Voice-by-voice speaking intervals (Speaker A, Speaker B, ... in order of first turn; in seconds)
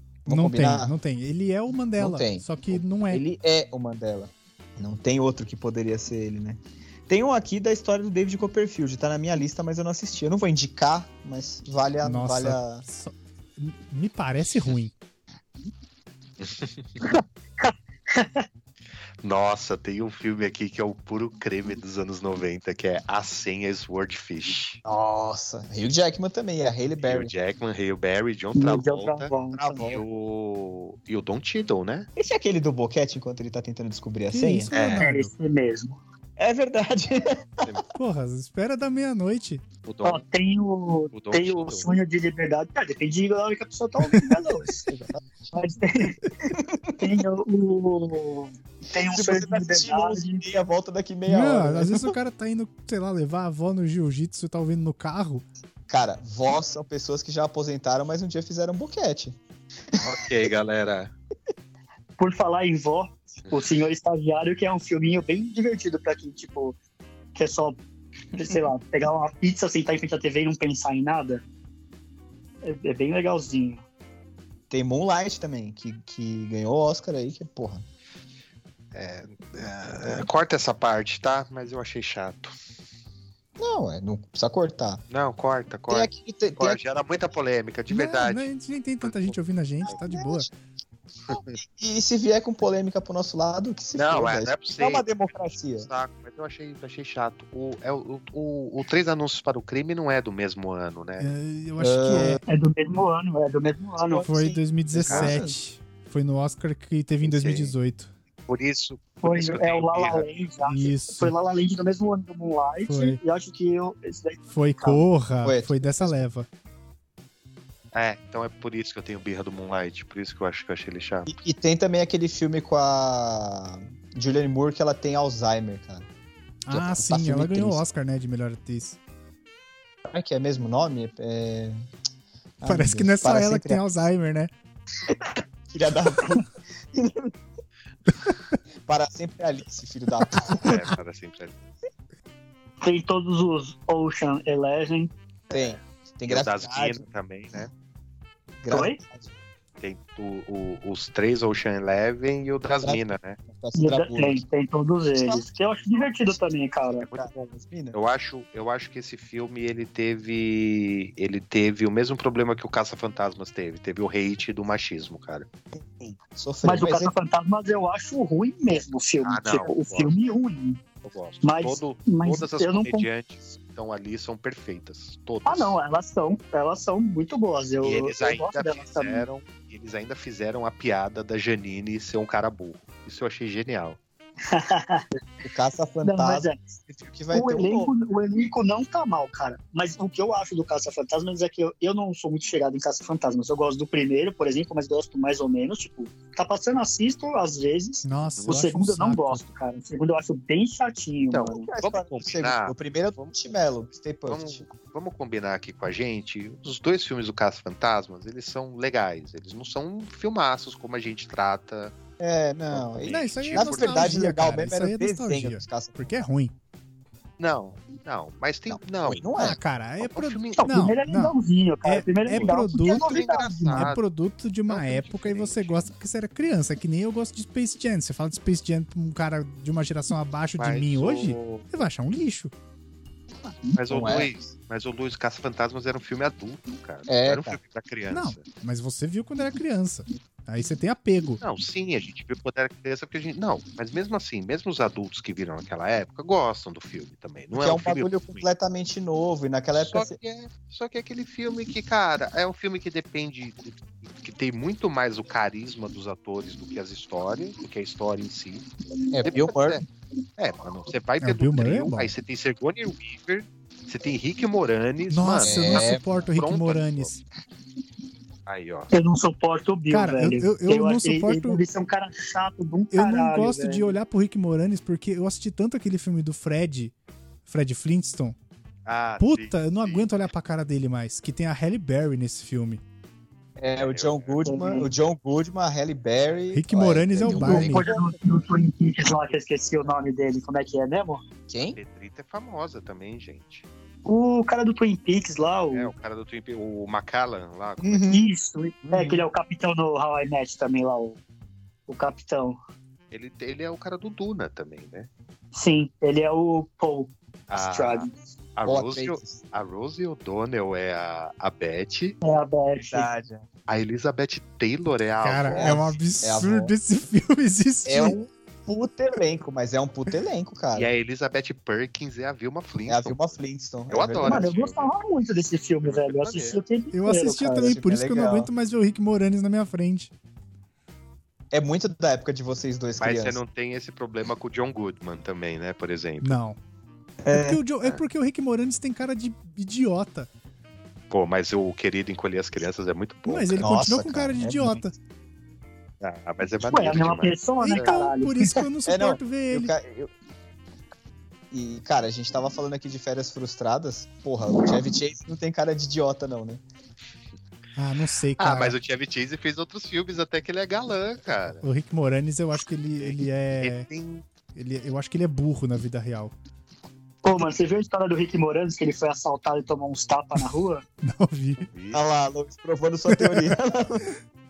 Speaker A: 0.3-0.9, 2.0-12.8, 24.9-27.3, 29.5-30.0, 32.2-34.7, 36.4-37.8, 44.9-45.3, 46.5-47.2, 49.0-52.2, 55.9-59.4, 74.7-77.8, 83.6-85.0, 85.9-86.8, 89.9-90.5, 91.3-95.9, 101.8-102.4, 104.1-105.6, 115.4-116.2, 121.3-126.1, 126.7-127.8, 130.1-131.8, 132.6-134.1, 135.7-137.3, 138.8-140.9, 145.5-147.1, 148.6-149.3, 152.8-154.4, 155.1-155.5, 156.9-158.0, 166.0-167.1, 185.4-187.9, 201.3-204.6, 212.2-216.1, 218.7-219.6, 233.9-234.3, 237.1-237.6, 247.6-250.2, 259.1-259.8, 265.4-266.1, 283.6-288.1, 291.5-291.8, 297.8-298.3, 298.9-299.3, 308.7-309.4, 312.9-313.5, 315.5-316.7, 317.9-320.9, 322.9-324.5, 327.5-328.5, 331.5-333.4, 337.2-337.6, 343.6-344.8, 348.9-350.1, 351.5-356.6, 371.9-374.1
Speaker B: 0.3-3.2, 12.0-14.9, 34.3-35.3, 38.0-39.6, 51.3-55.5, 87.9-90.5, 101.2-102.4, 104.3-108.1, 110.7-111.3, 112.9-113.2, 114.5-116.5, 126.7-129.0, 132.6-134.5, 198.0-199.4, 213.0-216.5, 219.4-223.2, 223.7-232.5, 238.1-241.4, 261.2-262.1, 265.1-267.2, 269.9-271.6, 272.9-276.9, 277.4-278.4, 279.2-282.8, 286.5-287.9, 315.2-318.2, 326.9-330.1, 336.2-336.6, 337.3-340.3, 343.3-344.9, 347.6-349.7, 357.8-358.8, 361.6-363.9, 364.6-366.3, 371.0-371.7, 373.1-373.5
Speaker C: 16.4-17.0, 19.2-24.8, 27.0-32.1, 34.7-35.0, 39.9-40.2, 41.1-41.9, 60.0-61.1, 63.5-63.8, 78.9-82.5, 85.1-88.5, 89.0-89.3, 91.3-91.6, 93.9-101.3, 105.1-105.4, 107.2-107.7, 108.5-110.3, 117.9-121.3, 140.5-141.6, 146.3-147.7, 149.8-153.4, 157.9-165.5, 169.2-170.1, 171.0-175.8, 177.8-184.0, 201.8-202.7, 204.3-211.9, 212.7-214.3, 217.4-219.2, 220.0-220.7, 222.3-224.0, 224.7-225.9, 230.6-231.7, 233.7-238.4, 241.4-248.4, 249.8-258.6, 259.3-259.8, 260.4-267.2, 268.5-268.9, 278.9-280.3, 283.8-284.4, 291.7-293.6, 295.7-298.1, 303.1-305.1, 307.5-312.2, 313.7-315.9, 320.8-323.4, 323.9-324.9, 325.8-326.6, 333.0-336.4, 341.1-343.7, 346.0-347.9, 358.4-361.6, 363.0-364.2, 371.6-372.0
Speaker D: 17.1-18.5, 28.6-29.9, 34.9-36.0, 40.0-44.9, 45.5-46.2, 47.0-50.5, 62.2-66.8, 67.3-67.8, 68.3-71.4, 72.6-73.8, 102.4-104.3, 109.2-115.0, 135.1-135.3, 142.8-145.1, 148.7-149.0, 153.8-157.1, 166.6-170.8, 171.4-173.1, 175.4-179.2, 184.5-185.2, 186.0-186.6, 187.3-201.7, 220.6-223.9, 268.9-273.9, 284.4-284.9, 287.2-291.2, 294.1-295.9, 298.1-301.2, 301.9-302.6, 305.5-308.1, 312.2-313.1, 324.2-327.7, 346.6-348.6, 367.2-370.8